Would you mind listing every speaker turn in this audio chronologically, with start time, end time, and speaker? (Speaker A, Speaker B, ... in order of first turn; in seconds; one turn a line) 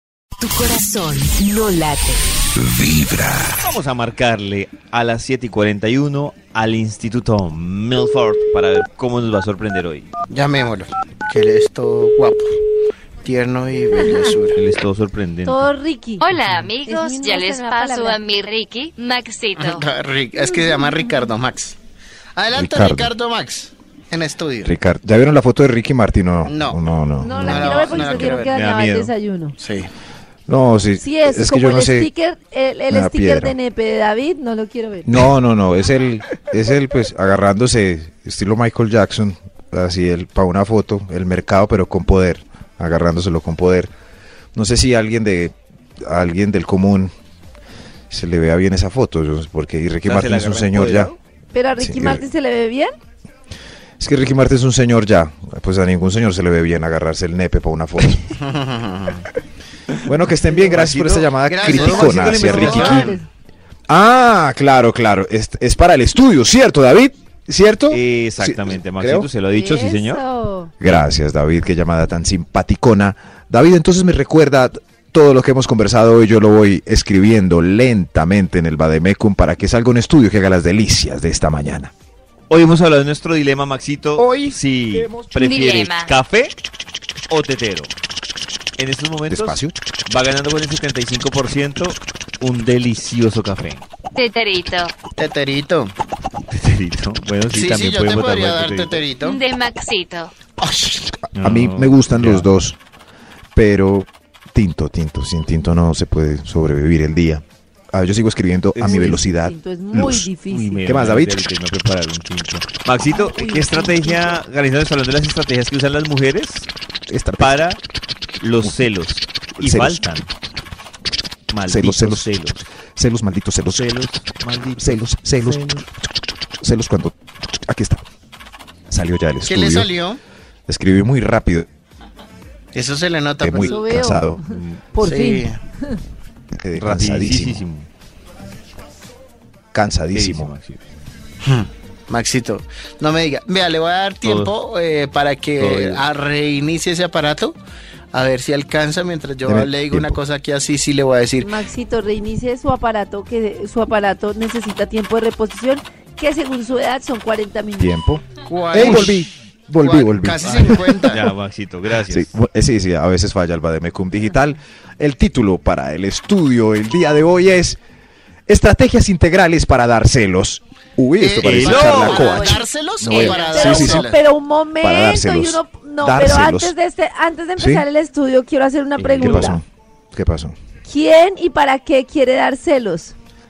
Speaker A: 0.4-3.5
Speaker B: 3.6-10.1
Speaker C: 10.3-12.5
Speaker C: 13.2-14.6
Speaker B: 14.5-15.7
Speaker D: 15.4-16.2
Speaker E: 16.2-19.9
Speaker D: 16.8-18.2
Speaker C: 19.6-21.8
Speaker D: 20.6-21.0
Speaker C: 22.4-24.7
Speaker F: 22.5-23.1
Speaker F: 24.6-28.4
Speaker C: 26.4-26.8
Speaker D: 27.2-29.6
Speaker C: 27.4-28.5
Speaker B: 28.4-29.1
Speaker C: 29.6-29.9
Speaker F: 30.5-32.1
Speaker D: 31.0-35.1
Speaker F: 32.9-33.6
Speaker F: 35.1-43.9
Speaker F: 44.5-47.1
Speaker F: 48.1-51.1
Speaker B: 50.0-51.2
Speaker D: 51.5-52.9
Speaker F: 51.8-52.2
Speaker F: 54.0-58.2
Speaker C: 58.4-59.3
Speaker F: 60.0-63.1
Speaker B: 60.4-63.2
Speaker C: 61.5-63.2
Speaker D: 62.5-63.3
Speaker F: 63.9-69.3
Speaker B: 67.9-70.2
Speaker D: 69.5-70.7
Speaker F: 70.8-81.9
Speaker B: 82.5-86.5
Speaker F: 84.2-85.3
Speaker E: 85.4-86.1
Speaker B: 87.3-87.9
Speaker B: 88.8-93.8
Speaker F: 89.3-89.7
Speaker E: 94.2-94.9
Speaker C: 95.2-95.9
Speaker B: 96.5-99.0
Speaker C: 97.5-99.4
Speaker E: 99.2-100.3
Speaker C: 100.6-101.1
Speaker F: 101.3-102.8
Speaker B: 101.3-102.5
Speaker F: 103.5-110.3
Speaker B: 108.8-109.2
Speaker D: 108.8-110.8
Speaker B: 110.5-116.7
Speaker F: 110.8-111.4
Speaker D: 113.1-114.4
Speaker F: 117.1-117.6
Speaker B: 117.4-117.8
Speaker B: 118.4-120.3
Speaker F: 119.6-120.0
Speaker B: 121.5-122.6
Speaker F: 121.7-122.3
Speaker F: 123.0-123.9
Speaker B: 123.6-124.9
Speaker F: 124.7-125.8
Speaker B: 125.4-125.8
Speaker F: 126.6-128.0
Speaker F: 128.9-129.9
Speaker C: 129.5-130.2
Speaker F: 130.7-131.7
Speaker C: 132.8-133.8
Speaker F: 133.4-134.4
Speaker D: 133.6-136.0
Speaker B: 134.4-134.8
Speaker C: 135.0-135.6
Speaker F: 136.6-137.7
Speaker B: 136.8-137.9
Speaker F: 139.7-140.5
Speaker B: 140.1-140.8
Speaker C: 141.4-147.6
Speaker B: 144.2-144.5
Speaker B: 145.6-146.0
Speaker C: 148.1-151.5
Speaker F: 149.4-150.2
Speaker D: 151.4-157.9
Speaker F: 157.8-161.2
Speaker C: 158.5-159.3
Speaker C: 159.8-161.3
Speaker B: 160.5-162.3
Speaker F: 162.1-167.8
Speaker F: 168.5-174.2
Speaker C: 171.2-174.2
Speaker B: 171.4-172.3
Speaker D: 171.7-179.6
Speaker F: 174.8-176.7
Speaker F: 177.6-177.9
Speaker B: 179.0-179.6
Speaker F: 179.2-180.6
Speaker D: 180.9-183.1